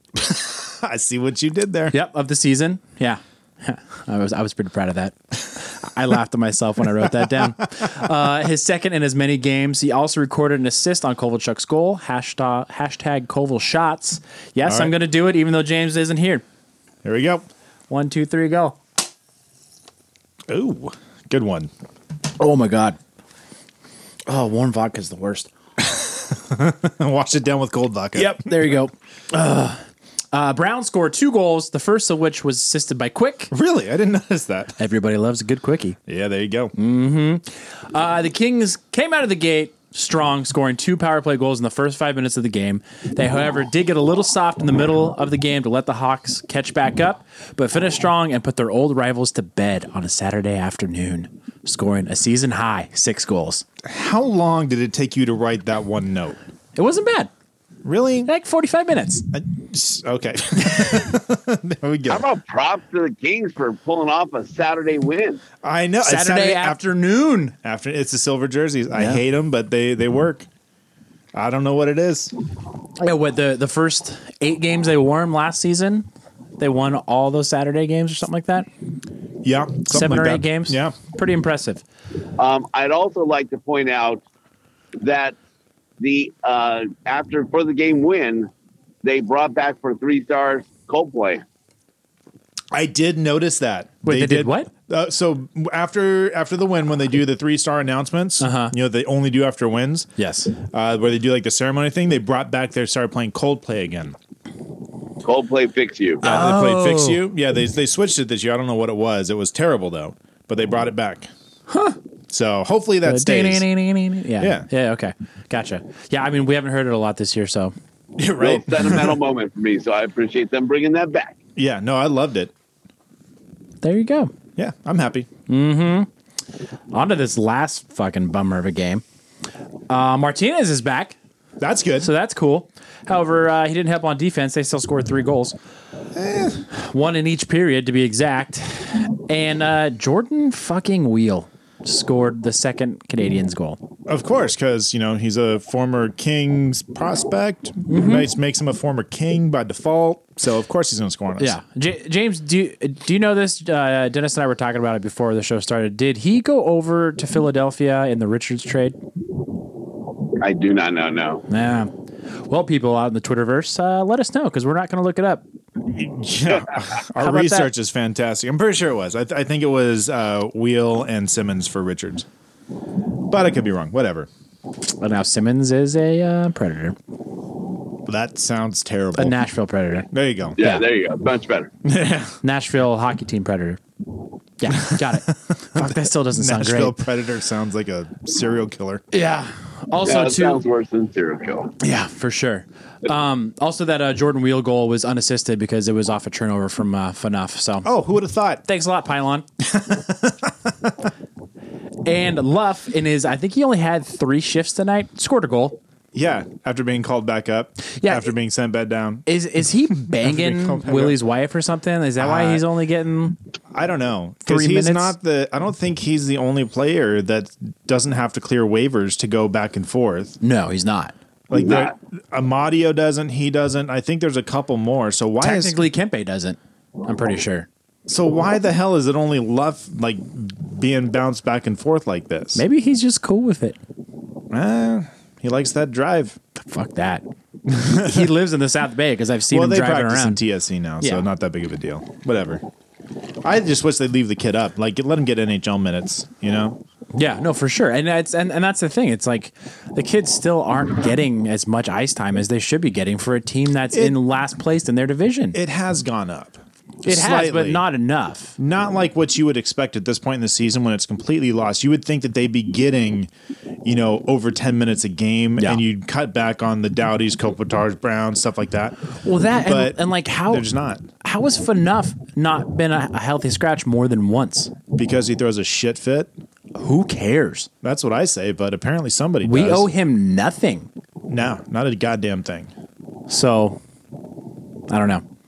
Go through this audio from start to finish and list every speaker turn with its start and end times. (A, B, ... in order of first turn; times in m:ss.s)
0:00.1-0:02.0 A
0:01.9-0:16.4 B
0:14.6-0:14.9 A
0:17.0-0:17.5 A
0:17.9-0:18.8 B
0:20.5-0:21.7 A
0:22.4-0:23.0 B
0:24.3-0:25.5 B
0:25.8-0:28.6 A
0:28.1-0:29.8 B
0:30.3-0:33.5 B
0:33.5-0:34.7 A
0:34.8-0:36.0 B
0:36.1-0:36.7 A
0:36.8-0:53.6 B
0:53.8-0:56.4 A
0:56.8-0:57.3 B
0:57.8-0:58.3 A
0:58.2-0:59.2 B
0:59.3-1:02.2 A
1:02.1-1:05.4 C
1:05.6-1:06.8 A
1:06.0-1:07.5 B
1:07.6-1:10.5 A
1:08.9-1:09.2 B
1:11.3-1:12.3 A
1:13.0-1:16.0 B
1:16.6-1:18.7 B
1:19.4-1:21.0 A
1:19.9-1:21.8 B
1:22.4-1:24.2 C
1:25.0-1:25.4 C
1:26.0-1:28.5 C
1:29.0-1:31.4 C
1:32.7-1:40.1 A
1:34.0-1:34.7 B
1:38.4-1:38.7 B
1:40.2-1:40.5 B
1:40.7-1:44.2 A
1:45.2-1:46.2 C
1:46.2-1:47.2 B
1:46.2-1:51.3 A
1:51.7-1:52.0 B
1:52.3-1:53.6 A
1:53.0-1:57.7 B
1:54.4-1:54.6 A
1:58.2-1:59.2 A
1:58.4-2:01.4 C
2:01.6-2:02.5 A
2:03.8-2:04.3 B
2:04.6-2:05.3 A
2:05.5-2:06.1 B
2:06.9-2:09.0 B
2:09.9-2:11.2 B
2:11.6-2:12.1 A
2:12.0-2:15.5 B
2:16.1-2:16.6 A
2:16.7-2:23.8 B
2:24.1-2:31.6 A
2:27.9-2:28.3 B
2:31.4-2:39.0 B
2:40.4-2:41.4 C
2:41.5-2:41.9 B
2:42.5-2:45.4 B
2:45.9-2:52.2 A
2:47.2-2:47.7 B
2:53.2-2:54.3 A
2:55.0-2:57.0 B
2:58.0-2:59.4 A
2:59.2-3:00.8 B
3:00.1-3:00.6 A
3:00.6-3:01.7 C
3:01.8-3:02.4 A
3:02.4-3:03.8 B
3:04.6-3:07.0 B
3:04.8-3:09.0 A
3:09.1-3:10.6 B
3:10.0-3:11.7 C
3:11.8-3:17.9 B
3:17.8-3:18.6 A
3:18.6-3:19.5 B
3:19.6-3:20.5 A
3:22.0-3:25.8 B
3:26.1-3:29.2 A
3:28.0-3:28.3 B
3:29.2-3:33.4 B
3:30.0-3:31.2 A
3:32.2-3:32.6 A
3:33.7-3:40.4 A
3:34.4-3:35.1 B
3:40.4-3:41.1 B
3:41.5-3:45.8 A
3:41.5-3:41.9 C
3:45.4-3:47.7 B
3:48.1-3:52.6 A
3:52.5-3:53.8 B
3:54.5-3:56.4 A
3:56.7-3:57.2 B
3:57.7-3:58.3 A
3:57.8-4:00.4 B
3:59.5-4:02.6 A
4:01.0-4:01.3 B
4:03.4-4:06.8 A
4:07.2-4:15.6 B
4:13.9-4:14.2 A
4:15.5-4:17.8 A
4:17.0-4:18.6 B
4:18.6-4:23.3 A
4:23.8-4:29.0 A
4:25.6-4:25.8 B
4:29.2-4:30.7 B
4:29.6-4:31.0 A
4:31.2-4:34.7 B
4:34.9-4:36.3 A
4:36.7-4:37.7 B
4:37.8-4:39.9 A
4:39.4-4:40.9 B
4:41.3-4:42.7 A
4:43.3-4:43.8 B
4:44.9-4:45.2 B